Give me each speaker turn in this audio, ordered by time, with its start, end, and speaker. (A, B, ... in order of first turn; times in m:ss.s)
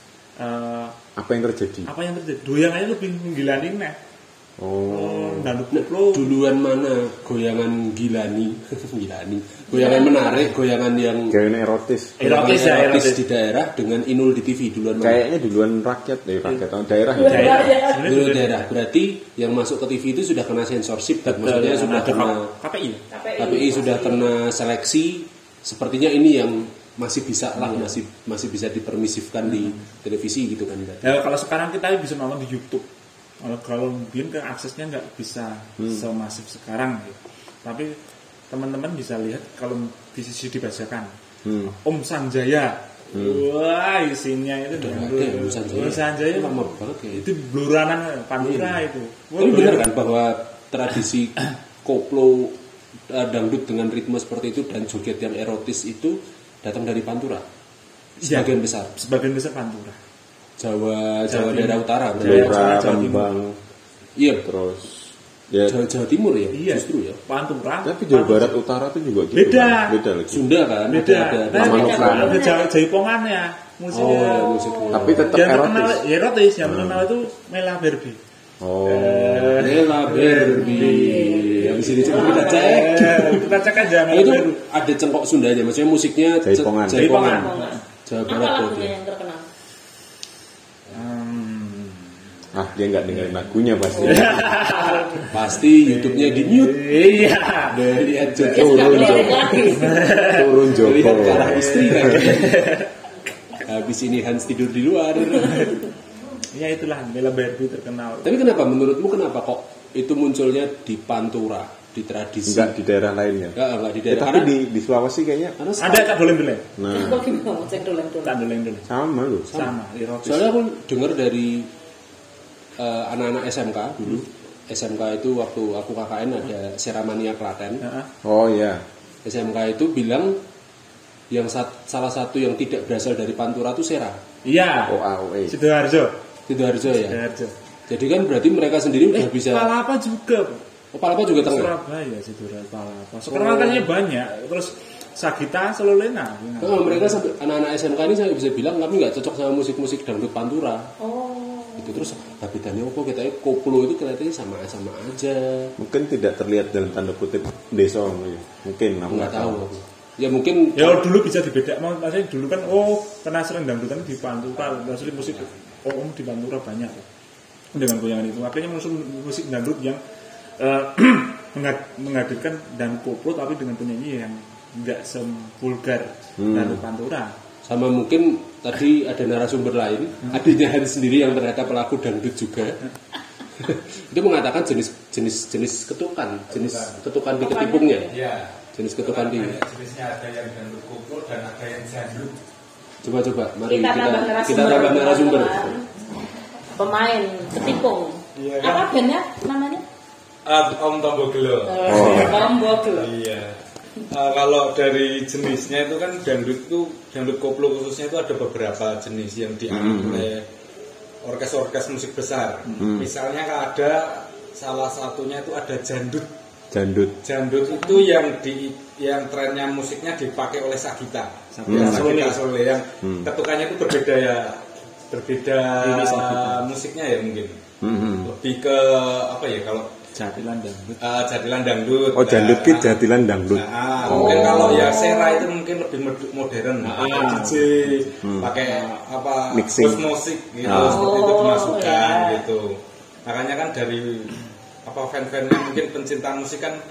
0:00.4-0:01.0 A
0:01.2-0:01.9 B
0:01.8-0:04.0 A
0:04.6-0:05.5 B
0:04.9-0:06.3 A
0:05.7-0:11.4 C
0:09.7-0:10.5 D
0:11.3-0:12.2 B
0:12.2-0:13.2 A
0:12.2-0:15.2 C
0:15.0-0:17.8 B
0:17.1-0:18.1 D
0:17.3-0:18.7 A
0:18.1-0:22.5 C
0:21.3-0:23.0 A
0:23.1-0:24.3 D
0:23.4-0:31.2 C
0:27.6-0:28.0 A
0:29.5-0:29.8 A
0:31.0-0:32.9 A
0:33.4-0:38.0 A
0:38.5-0:41.1 A
0:41.4-0:41.7 B
0:41.7-0:49.9 A
0:43.1-0:43.4 B
0:44.8-0:47.2 C
0:48.4-0:48.8 C
0:49.4-0:52.5 C
0:53.1-0:57.5 C
0:58.2-0:58.9 C
0:58.2-1:00.0 A
1:00.6-1:02.8 C
1:01.3-1:03.3 A
1:02.2-1:03.6 B
1:04.2-1:04.5 C
1:04.4-1:05.8 B
1:05.7-1:07.2 C
1:06.5-1:08.6 A
1:07.8-1:10.4 B
1:09.3-1:10.0 A
1:10.3-1:12.3 C
1:10.9-1:14.6 A
1:11.5-1:12.4 B
1:11.6-1:12.7 D
1:13.9-1:15.3 C
1:14.3-1:15.3 D
1:14.9-1:16.0 B
1:15.3-1:18.2 A
1:16.6-1:17.1 B
1:18.6-1:19.7 B
1:18.8-1:24.6 A
1:19.6-1:23.6 C
1:20.5-1:23.0 D
1:24.1-1:29.0 C
1:26.4-1:27.3 B
1:26.9-1:27.8 A
1:27.2-1:29.5 D
1:30.9-1:32.2 A
1:32.5-1:34.6 B
1:33.1-1:33.4 A
1:34.0-1:42.9 A
1:34.1-1:35.3 D
1:35.3-1:37.0 C
1:37.7-1:39.9 C
1:38.4-1:40.1 D
1:38.6-1:39.3 B
1:40.1-1:42.2 B
1:40.7-1:42.6 C
1:43.6-1:45.8 C
1:46.5-1:48.3 A
1:48.2-1:52.7 C
1:52.5-1:53.6 B
1:53.6-1:54.6 C
1:54.1-1:55.6 B
1:55.6-1:56.2 C
1:55.8-1:56.7 A
1:56.8-1:57.2 B
1:56.9-1:58.4 D
1:58.2-1:58.9 A
1:58.9-1:59.7 B
1:59.5-2:00.5 A
2:00.2-2:01.7 C
2:02.8-2:07.8 C
2:07.8-2:08.1 A
2:08.2-2:08.8 B
2:09.2-2:10.4 C
2:11.3-2:14.2 C
2:14.4-2:15.0 A
2:14.9-2:15.5 B
2:15.5-2:16.1 A
2:16.5-2:17.2 C
2:16.9-2:17.5 A
2:17.9-2:19.7 C
2:19.1-2:20.6 A
2:20.9-2:21.7 C
2:21.4-2:27.3 A
2:23.3-2:23.9 C
2:26.6-2:30.9 C
2:31.0-2:32.1 D
2:31.8-2:35.7 C
2:35.8-2:39.6 B
2:39.1-2:41.0 C
2:40.8-2:47.1 A
2:47.7-2:50.0 A
2:50.6-2:57.3 A
2:56.4-2:56.8 B
2:57.6-3:02.8 C
3:03.6-3:08.1 C
3:06.5-3:07.0 E
3:07.4-3:08.1 D
3:08.1-3:12.4 E
3:08.7-3:09.6 C
3:13.0-3:15.7 C
3:13.7-3:15.9 D
3:16.8-3:19.8 D
3:18.4-3:18.9 E
3:20.5-3:23.6 E
3:21.7-3:23.1 D
3:21.8-3:22.4 B
3:24.1-3:30.5 E
3:29.7-3:30.3 B
3:31.2-3:36.3 E
3:32.7-3:32.9 A
3:32.8-3:33.1 B
3:36.7-3:37.1 B
3:37.2-3:47.6 E
3:41.5-3:42.4 A
3:41.7-3:42.1 B
3:43.0-3:43.3 B
3:45.8-3:46.6 A
3:47.8-3:48.3 B
3:48.2-3:49.9 E
3:50.1-3:51.0 A
3:51.0-3:53.0 E
3:52.1-3:55.0 B
3:53.5-4:06.8 E
3:54.0-3:55.5 D
3:56.8-3:59.0 A
3:58.2-3:58.6 B
3:59.5-4:00.0 B
4:00.6-4:01.1 B
4:00.7-4:02.4 D